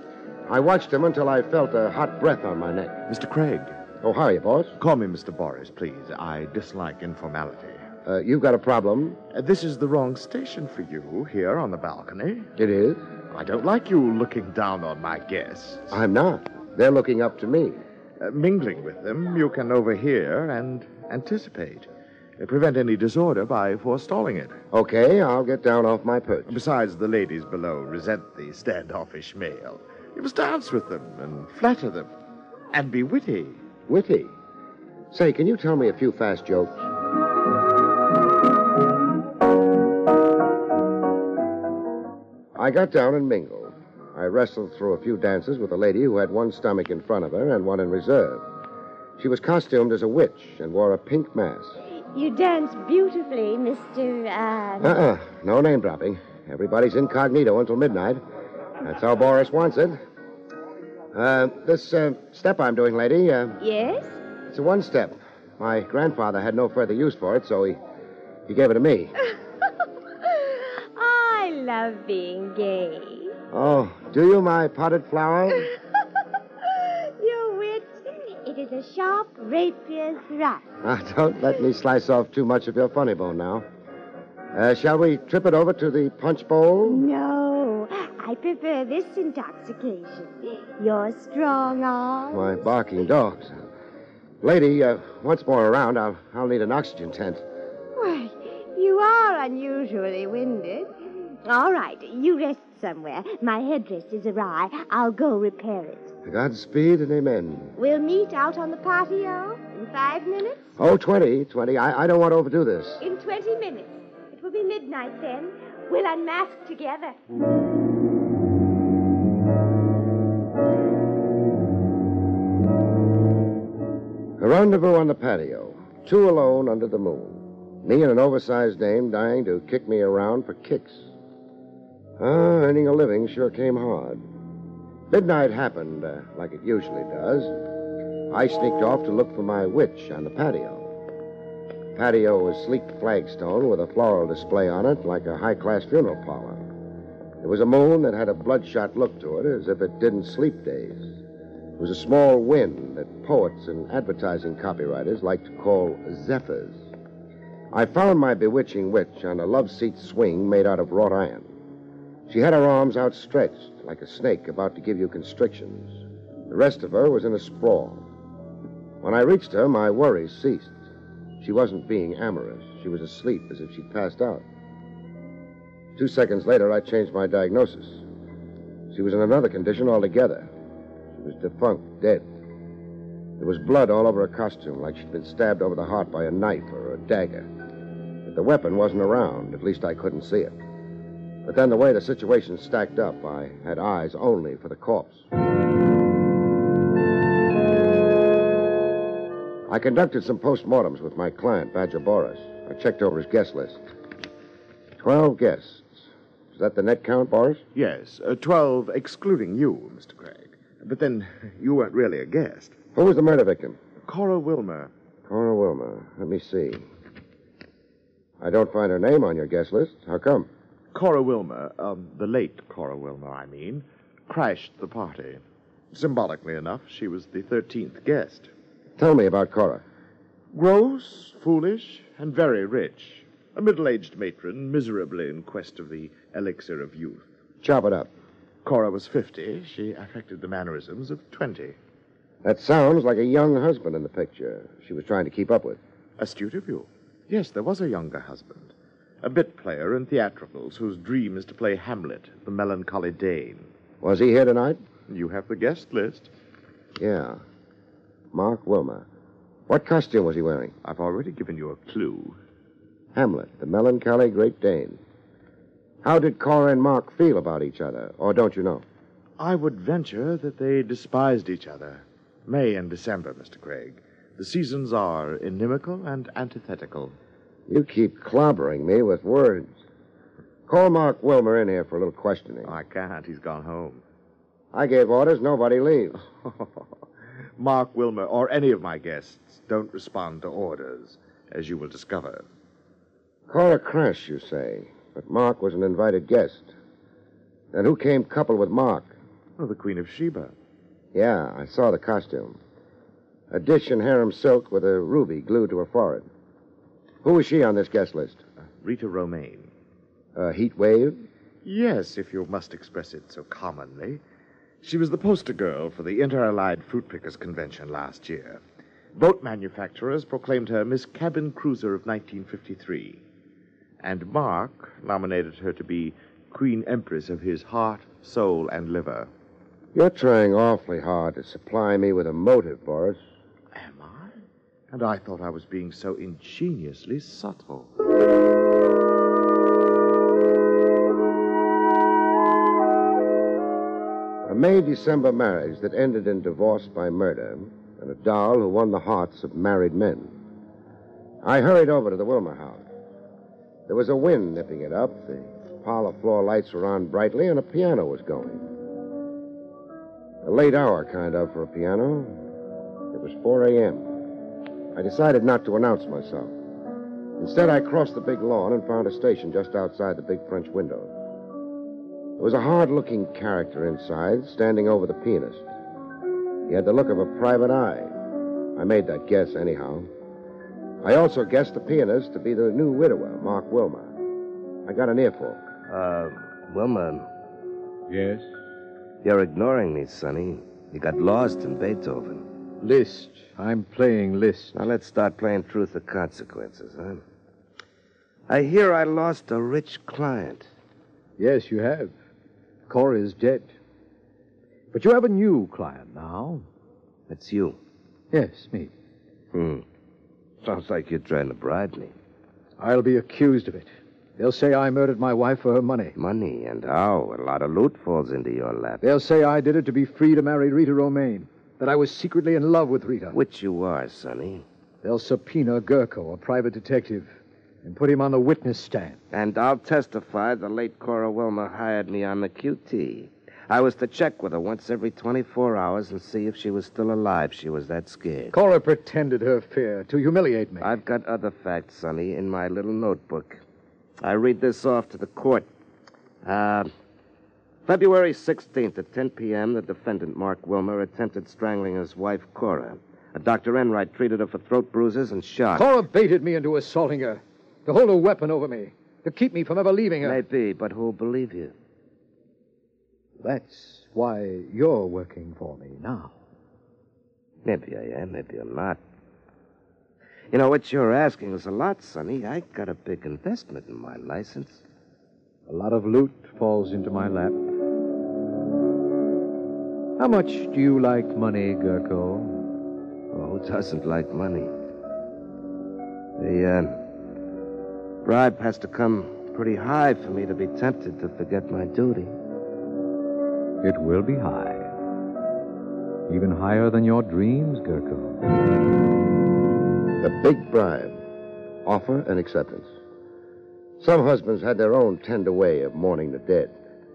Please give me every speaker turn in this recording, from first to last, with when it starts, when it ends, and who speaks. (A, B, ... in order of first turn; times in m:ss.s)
0:00.5-0:03.0 A
0:03.1-0:03.8 B
0:04.0-0:04.8 A
0:04.8-0:07.8 B
0:08.0-0:09.2 A
0:09.3-0:12.5 B
0:12.6-0:13.0 A
0:13.3-0:15.9 B
0:15.9-0:17.8 A
0:18.2-0:21.9 B
0:22.4-0:24.6 B
0:24.7-0:26.6 A
0:26.5-0:32.1 B
0:32.7-0:33.6 B
0:33.9-0:34.3 A
0:35.1-0:36.8 A
0:42.5-0:48.4 A
0:49.2-0:51.8 A
0:51.9-0:54.9 C
0:54.8-0:58.2 A
0:58.8-1:00.0 A
1:01.1-1:03.6 A
1:03.6-1:04.2 C
1:04.5-1:07.8 A
1:08.5-1:09.1 A
1:11.0-1:13.3 C
1:13.5-1:15.7 A
1:17.2-1:20.6 C
1:20.8-1:23.6 A
1:24.5-1:27.0 A
1:26.8-1:32.5 C
1:32.3-1:33.6 A
1:34.4-1:37.4 A
1:38.0-1:40.9 C
1:41.4-1:46.1 C
1:46.2-1:47.7 A
1:47.8-1:50.7 C
1:50.8-1:53.0 A
1:53.0-1:57.2 C
2:04.4-2:11.1 A
2:12.2-2:14.2 A
2:15.1-2:17.6 A
2:18.3-2:20.9 A
2:21.9-2:26.6 A
2:27.4-2:31.1 A
2:31.8-2:36.9 A
2:37.7-2:41.5 A
2:42.3-2:48.0 A
2:49.0-2:50.8 A
2:51.4-2:54.4 A
2:56.0-2:58.0 A
2:58.9-3:00.5 A
3:01.1-3:02.2 A
3:03.4-3:07.5 A
3:08.2-3:10.6 A
3:11.4-3:15.2 A
3:19.7-3:23.8 A
3:25.0-3:27.6 A
3:27.7-3:32.8 B
3:32.9-3:33.8 A
3:34.0-3:34.9 B
3:35.3-3:36.9 A
3:38.4-3:40.5 A
3:40.9-3:48.5 B
3:49.0-3:49.8 A
3:50.5-3:57.2 B
3:57.6-3:58.1 A
3:58.6-4:01.8 B
4:02.4-4:05.8 A
4:06.2-4:13.7 B
4:14.0-4:14.8 A
4:15.1-4:16.3 B
4:17.0-4:17.4 A
4:18.3-4:19.0 A
4:19.7-4:20.7 A
4:20.8-4:22.4 B
4:23.1-4:25.0 A
4:26.0-4:28.8 A
4:29.4-4:37.1 B
4:37.7-4:39.8 A
4:40.7-4:42.7 A
4:42.6-4:44.0 B
4:44.7-4:46.2 A
4:46.4-4:46.8 B
4:47.6-4:52.4 B
4:53.5-4:56.7 A
4:57.7-4:59.1 A
4:59.6-5:00.5 B
5:01.1-5:02.6 A
5:03.5-5:06.3 A
5:07.2-5:08.4 A
5:08.8-5:09.7 B
5:10.3-5:11.2 A
5:11.6-5:14.2 B
5:14.8-5:18.6 B
5:19.2-5:23.2 B
5:24.0-5:29.3 B
5:29.9-5:33.2 A
5:33.7-5:34.3 B
5:34.9-5:37.9 B
5:44.4-5:50.3 A
5:51.4-5:52.8 A
5:53.9-5:58.7 A
6:00.4-6:02.4 A
6:03.1-6:04.1 A
6:04.9-6:06.5 A
6:07.4-6:11.1 A
6:12.4-6:15.7 A
6:16.7-6:18.1 A
6:18.8-6:20.1 A
6:21.0-6:24.1 A
6:24.8-6:25.6 A
6:25.9-6:27.3 D
6:28.1-6:28.5 E
6:29.2-6:32.5 D
6:32.8-6:34.8 E
6:34.7-6:37.2 D
6:38.5-6:40.7 D
6:41.4-6:42.1 E
6:42.9-6:43.7 E
6:44.9-6:46.6 E
6:47.3-6:47.8 D
6:48.3-6:48.9 E
6:49.5-6:49.8 D
6:50.6-6:52.1 D
6:52.8-6:56.1 E
6:56.2-6:59.0 D
6:59.0-7:03.4 E
7:03.3-7:04.6 D
7:05.0-7:07.3 E
7:07.8-7:09.2 E
7:09.3-7:18.5 D
7:18.5-7:20.9 E
7:20.8-7:23.6 D
7:24.2-7:25.7 D
7:26.4-7:26.9 D
7:27.8-7:35.8 D
7:35.7-7:40.4 E
7:40.2-7:41.7 D
7:43.4-7:46.4 E
7:47.6-7:49.0 D
7:50.5-7:54.8 D
7:55.7-7:57.7 E
8:00.2-8:02.6 E
8:03.3-8:04.7 D
8:06.4-8:07.0 D
8:08.2-8:12.3 D
8:13.8-8:14.9 E
8:16.3-8:18.4 E
8:20.2-8:21.2 A
8:21.8-8:22.9 A
8:24.0-8:26.7 A